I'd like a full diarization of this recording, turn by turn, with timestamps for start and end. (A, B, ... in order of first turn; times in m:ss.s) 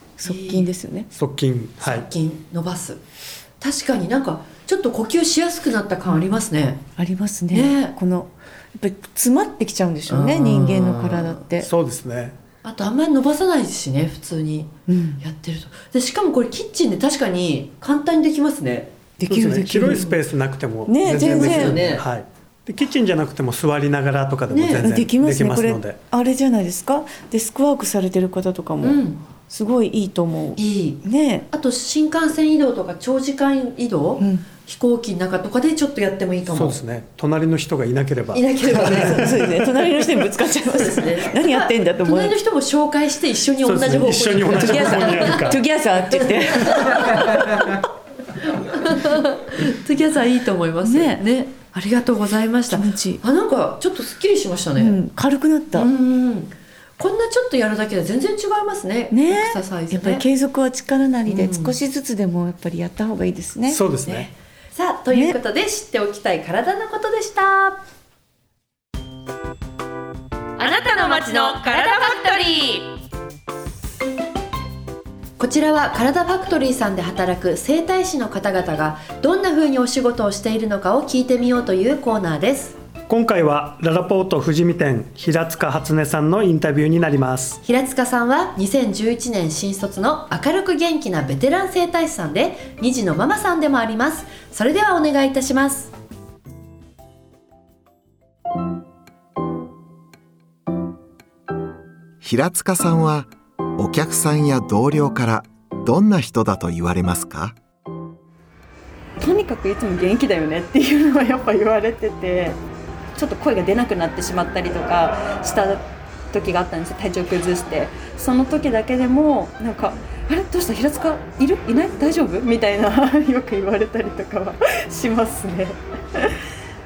0:00.2-0:01.1 A
0:00.2-0:00.7 B
0:01.1-0:02.1 C
0:01.8-0:03.0 B
0:03.6-0:06.8 B
0:07.0-0:11.7 A
0:07.5-0:08.0 B
0:10.1-0:11.4 B
0:11.6-0:12.4 C
0:12.6-0:18.9 B
0:14.9-0:15.2 A
0:19.2-0:20.2 A
0:19.3-0:26.0 C
0:20.9-0:21.8 A
0:21.2-0:22.0 B
0:24.5-0:24.9 B
0:24.8-0:31.5 A
0:28.8-0:29.2 B
0:30.6-0:36.8 B
0:34.2-0:34.5 A
0:36.5-0:39.5 C
0:38.3-0:45.6 B
0:38.9-0:42.4 A
0:43.6-0:45.6 C
0:44.6-0:47.8 A
0:46.2-0:47.7 B
0:48.5-0:55.0 B
0:50.8-0:51.2 A
0:52.7-0:53.2 A
0:54.8-0:55.9 A
0:55.7-1:00.2 B
0:59.1-1:03.8 A
1:01.3-1:01.8 B
1:03.7-1:04.3 C
1:04.1-1:07.8 B
1:05.1-1:05.4 A
1:10.6-1:12.9 D
1:10.7-1:12.1 B
1:15.4-1:22.8 B
1:23.1-1:27.6 C
1:27.6-1:35.9 B
1:42.2-1:47.6 E
1:49.2-1:52.6 F
1:53.2-2:06.4 F